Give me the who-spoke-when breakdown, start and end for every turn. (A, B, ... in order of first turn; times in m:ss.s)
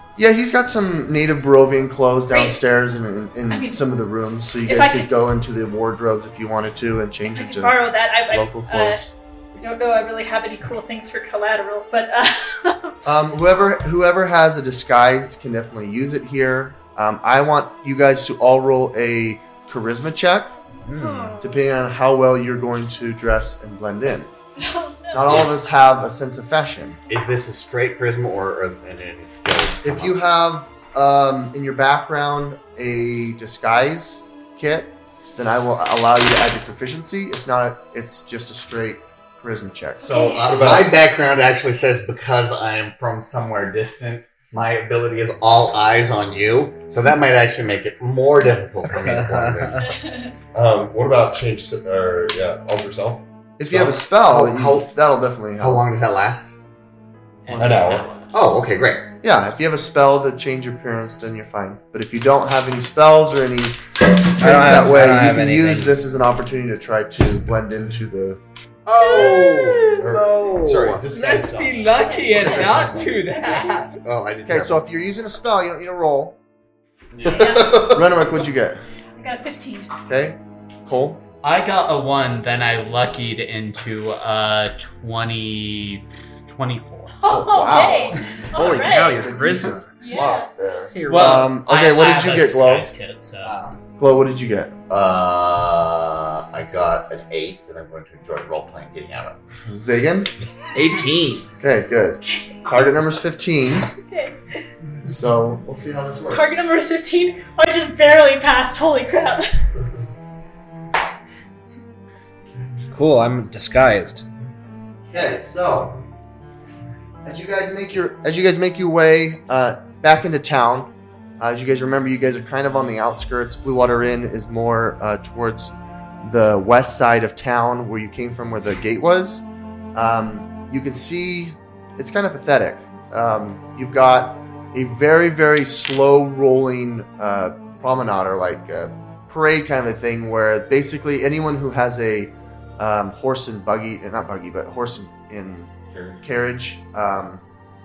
0:00.2-0:09.1 A
0:02.3-0:02.6 B
0:03.5-0:03.8 B
0:04.6-0:05.2 B
0:07.3-0:09.0 B
0:09.5-0:13.0 B
0:13.0-0:20.5 A
0:20.8-0:21.3 C
0:21.4-0:24.3 A
0:24.6-0:25.4 B
0:25.1-0:27.0 A
0:25.3-0:25.5 D
0:27.1-0:30.2 D
0:29.8-0:40.1 A
0:40.0-0:49.8 D
0:40.0-0:40.5 B
0:40.4-0:40.9 E
0:49.0-0:49.8 C
0:49.8-0:50.3 B
0:50.5-0:53.2 E
0:53.6-0:55.8 A
0:53.6-0:54.9 D
0:55.6-0:56.6 D
0:57.4-0:58.3 F
0:57.5-0:58.0 A
0:57.6-0:58.0 E
0:58.3-0:59.0 D
0:59.2-1:03.8 A
1:04.3-1:08.4 A
1:04.4-1:06.0 C
1:08.8-1:14.8 D
1:09.0-1:10.0 C
1:10.0-1:13.0 E
1:11.1-1:13.8 C
1:12.0-1:12.8 B
1:14.4-1:16.4 A
1:17.1-1:17.6 D
1:17.4-1:17.8 B
1:17.7-1:18.0 E
1:17.8-1:18.8 A
1:19.2-1:19.9 B
1:20.1-1:21.2 A
1:21.4-1:27.1 F
1:27.2-1:29.3 B
1:27.3-1:32.9 A
1:28.5-1:29.9 C
1:30.0-1:30.5 B
1:30.9-1:31.6 C
1:31.1-1:33.5 F
1:33.4-1:33.8 C
1:34.0-1:34.7 A
1:34.9-1:39.4 D
1:39.6-1:40.3 A
1:40.7-1:41.5 C
1:41.6-1:43.9 A
1:44.0-1:44.4 B
1:45.1-1:46.5 A
1:46.3-1:49.7 B
1:52.9-1:54.2 C
1:55.1-1:56.0 A
1:57.2-2:27.4 A